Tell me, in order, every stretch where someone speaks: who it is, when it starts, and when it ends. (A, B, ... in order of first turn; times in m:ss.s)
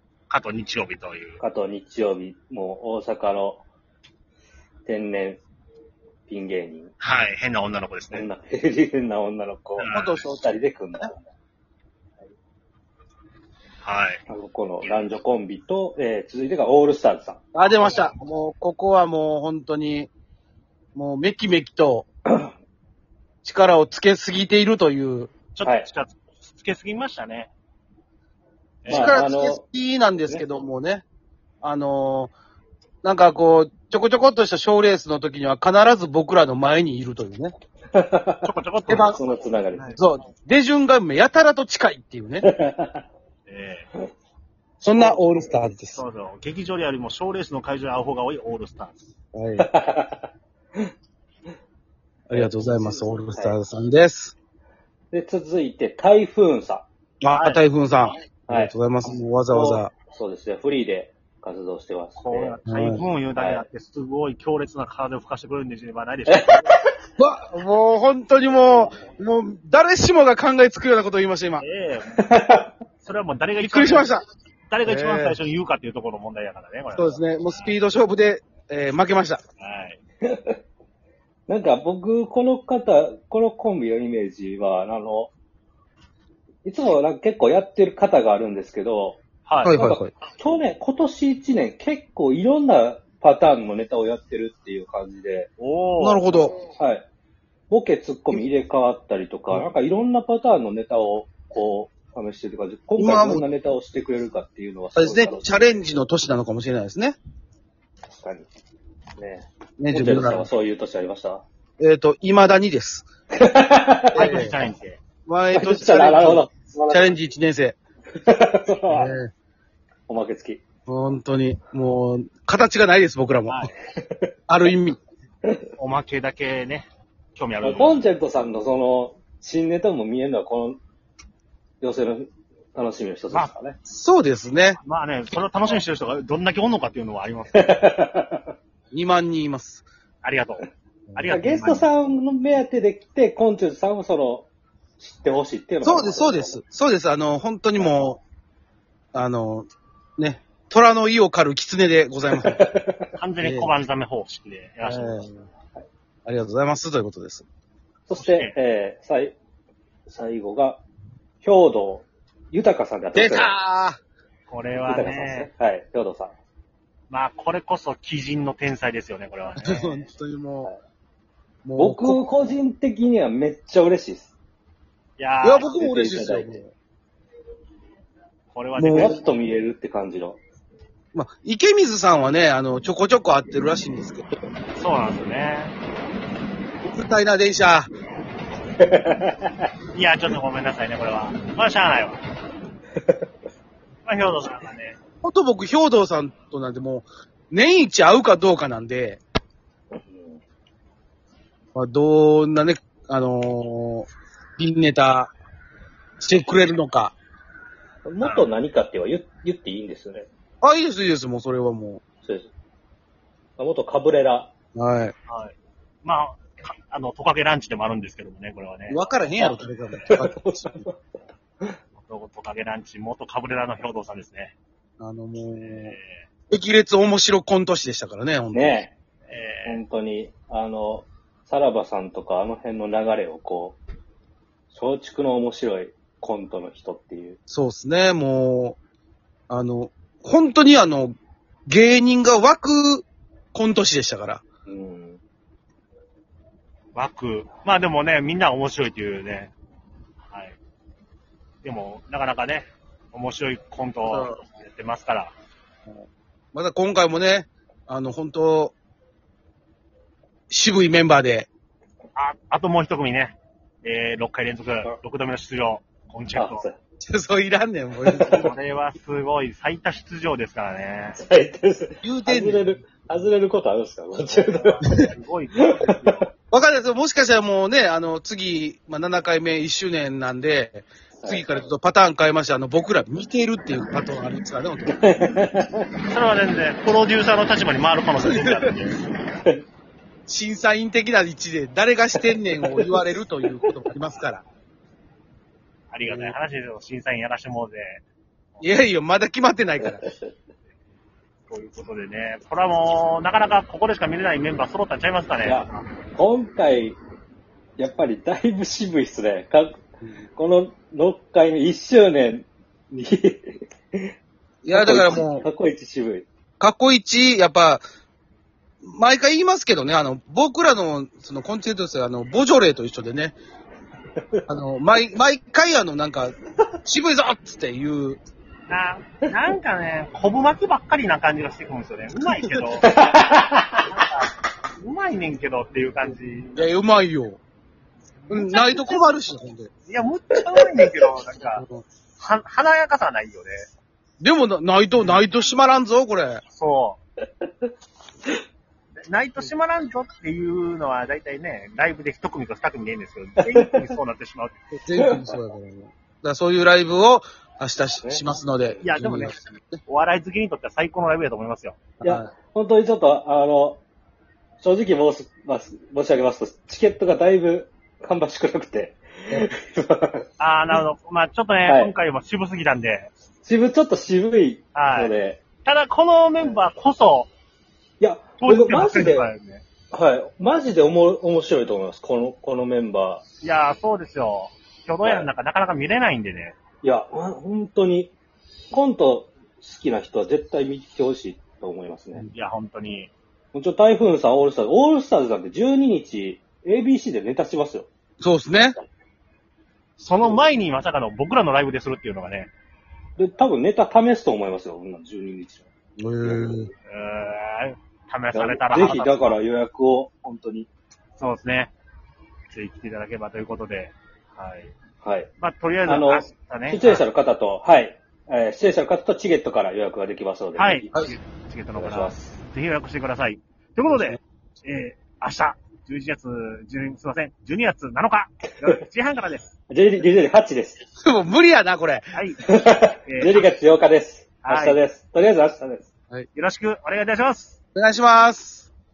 0:00.3-0:01.4 A
0:01.4-0:03.6 B
0:04.8-0:05.4 B
0:06.3-0:06.9 B
0:07.0-0:08.3 A
0:08.1-0:11.3 B
0:09.8-0:10.2 A
0:09.9-0:11.1 C
0:13.8-0:14.2 A
0:14.3-0:17.4 B
0:17.5-0:20.1 C
0:17.6-0:18.1 A
0:21.0-0:22.1 C
0:23.4-0:25.3 C
0:25.5-0:27.5 A
0:25.6-0:25.9 B
0:28.8-0:29.3 A
0:28.9-0:29.6 B
0:28.9-0:31.0 C
0:30.2-0:30.4 B
0:31.6-0:32.3 C
0:33.0-0:37.5 C
0:37.9-0:38.5 B
0:38.4-0:39.2 A
0:38.9-0:39.2 C
0:39.0-0:40.0 B
0:39.7-0:40.0 A
0:40.0-0:42.5 C
0:42.4-0:43.0 B
0:43.5-0:43.9 A
0:44.8-0:46.0 C
0:45.0-0:45.6 B
0:45.8-0:49.0 A
0:49.3-0:49.7 C
0:49.6-0:50.3 B
0:52.3-0:54.3 C
0:52.3-0:53.6 B
0:55.1-0:56.9 B
0:57.2-0:59.9 C
0:57.3-0:57.6 A
0:58.5-0:58.7 B
0:59.5-1:02.6 B
1:02.2-1:06.7 A
1:02.7-1:03.0 C
1:03.4-1:03.6 B
1:06.3-1:06.7 B
1:07.2-1:11.7 C
1:11.6-1:12.2 A
1:12.2-1:12.7 B
1:13.0-1:14.1 A
1:13.6-1:14.2 C
1:14.7-1:17.7 A
1:14.8-1:15.4 C
1:16.9-1:19.4 C
1:19.6-1:20.0 A
1:20.3-1:20.5 B
1:21.5-1:25.3 B
1:26.6-1:29.2 B
1:29.5-1:29.8 A
1:29.6-1:30.1 C
1:29.8-1:35.5 B
1:35.6-1:36.5 A
1:36.0-1:36.6 C
1:36.8-1:37.1 B
1:37.7-1:45.8 B
1:43.0-1:43.4 C
1:45.0-1:47.2 C
1:48.1-1:48.5 B
1:49.2-1:51.4 B
1:49.8-1:50.5 C
1:51.8-1:53.1 C
1:53.3-1:54.3 B
1:54.2-1:54.6 C
1:54.2-1:55.0 A
1:55.3-1:57.8 C
1:55.5-1:57.1 B
1:58.2-1:59.1 B
1:58.9-1:59.3 C
2:00.1-2:00.6 B
2:00.9-2:03.7 C
2:04.0-2:04.3 B
2:04.5-2:05.0 C
2:05.8-2:08.0 A
2:07.6-2:10.8 B
2:11.8-2:13.8 B
2:13.9-2:14.8 C
2:14.8-2:17.9 A
2:17.6-2:18.4 B
2:18.9-2:19.8 C
2:20.2-2:21.9 A
2:21.1-2:21.4 C
2:21.3-2:26.6 B
2:25.8-2:28.2 C
2:29.1-2:32.6 C
2:32.4-2:33.1 B
2:33.1-2:35.3 A
2:33.4-2:33.7 C
2:34.8-2:35.5 C
2:36.3-2:37.5 C
2:38.1-2:39.4 B
2:38.1-2:38.6 A
2:40.1-2:40.8 B
2:41.4-2:43.6 B
2:43.1-2:44.0 C
2:44.5-2:45.5 A
2:44.8-2:46.4 B
2:47.1-2:50.0 A
2:49.6-2:50.7 C
2:51.6-2:52.5 C
2:51.8-2:54.3 B
2:55.2-2:55.8 A
2:55.4-2:56.7 C
2:55.7-2:56.6 B
2:58.5-2:59.2 A
2:58.8-2:59.2 C
2:58.9-3:00.4 B
3:01.1-3:04.3 C
3:04.8-3:05.7 A
3:06.8-3:07.9 C
3:08.8-3:09.7 B
3:09.9-3:12.2 A
3:13.0-3:13.3 B
3:14.0-3:15.0 A
3:15.2-3:19.2 C
3:20.0-3:20.4 B
3:21.8-3:25.3 C
3:26.2-3:27.2 C
3:28.0-3:30.3 B
3:28.2-3:28.5 A
3:30.6-3:32.0 C
3:32.2-3:32.5 B
3:33.6-3:34.5 B
3:34.8-3:35.2 C
3:35.3-3:40.2 A
3:38.9-3:40.8 C
3:40.0-3:41.0 B
3:42.0-3:44.6 A
3:45.0-3:46.0 C
3:45.6-3:46.2 A
3:46.5-3:48.9 C
3:48.5-3:48.9 B
3:49.3-3:49.8 A
3:49.7-3:53.8 B
3:54.7-3:57.4 B
3:57.5-3:58.8 C
3:59.5-4:01.2 C
4:01.7-4:04.4 C
4:04.7-4:05.2 B
4:07.0-4:09.5 A
4:10.3-4:10.6 A
4:11.6-4:15.3 A
4:14.1-4:14.4 C
4:15.9-4:18.8 C
4:20.5-4:21.5 C
4:22.2-4:26.6 A
4:26.3-4:26.8 B
4:27.0-4:28.6 C
4:28.1-4:31.2 A
4:31.2-4:35.0 B
4:32.0-4:33.3 C
4:34.2-4:36.3 A
4:35.8-4:36.2 B
4:36.5-4:45.3 C
4:41.2-4:41.7 B
4:45.0-4:45.9 B
4:46.1-4:49.0 A
4:48.2-4:48.7 C
4:50.3-4:54.4 C
4:52.7-4:53.7 B
4:55.9-4:58.0 A
4:56.1-4:56.4 C
4:58.6-5:00.0 C
4:59.8-5:00.3 B
5:01.5-5:05.8 A
5:05.4-5:07.0 B
5:07.8-5:09.8 B
5:10.4-5:14.1 B
5:14.6-5:15.4 C
5:14.7-5:16.3 B
5:16.6-5:17.8 C
5:18.8-5:23.4 C
5:24.2-5:24.5 B
5:24.5-5:28.2 C
5:28.7-5:32.9 A
5:32.8-5:33.9 B
5:33.8-5:36.7 A
5:36.6-5:37.4 C
5:38.2-5:39.0 A
5:38.3-5:39.7 C
5:39.9-5:41.6 A
5:41.6-5:41.8 C
5:42.2-5:43.7 A
5:44.2-5:46.4 C
5:44.9-5:45.2 A
5:46.5-5:47.0 A
5:49.1-5:54.6 A
5:53.5-5:54.0 B
5:54.8-5:59.8 C
5:55.0-5:55.4 B
5:58.0-5:58.8 B
5:58.8-5:59.4 A
5:59.9-6:01.8 A
6:02.0-6:02.3 C
6:02.0-6:03.8 B
6:04.6-6:10.3 B
6:10.4-6:13.1 A
6:11.7-6:11.9 B
6:13.4-6:15.4 B
6:14.8-6:15.1 A
6:15.6-6:17.3 A
6:16.4-6:16.7 B
6:18.0-6:19.3 B
6:18.4-6:19.6 A
6:19.9-6:23.2 B
6:23.4-6:26.6 A
6:25.0-6:25.3 B
6:26.8-6:28.2 B
6:28.7-6:32.3 B
6:32.3-6:33.1 A
6:33.5-6:37.9 B
6:38.2-6:38.8 C
6:38.5-6:38.8 B
6:40.0-6:42.5 A
6:43.2-6:45.7 B
6:46.0-6:46.7 C
6:46.2-6:46.7 B
6:46.9-6:49.4 A
6:48.3-6:50.7 B
6:51.2-6:51.7 A
6:52.5-6:54.7 A
6:55.0-6:55.3 B
6:55.4-6:57.0 A
6:55.8-7:01.0 B
7:00.6-7:09.5 A
7:01.8-7:02.4 B
7:09.7-7:10.8 B
7:11.0-7:12.1 C
7:12.1-7:13.5 A
7:12.5-7:15.9 B
7:14.4-7:14.8 A
7:16.4-7:17.6 A
7:17.8-7:18.7 C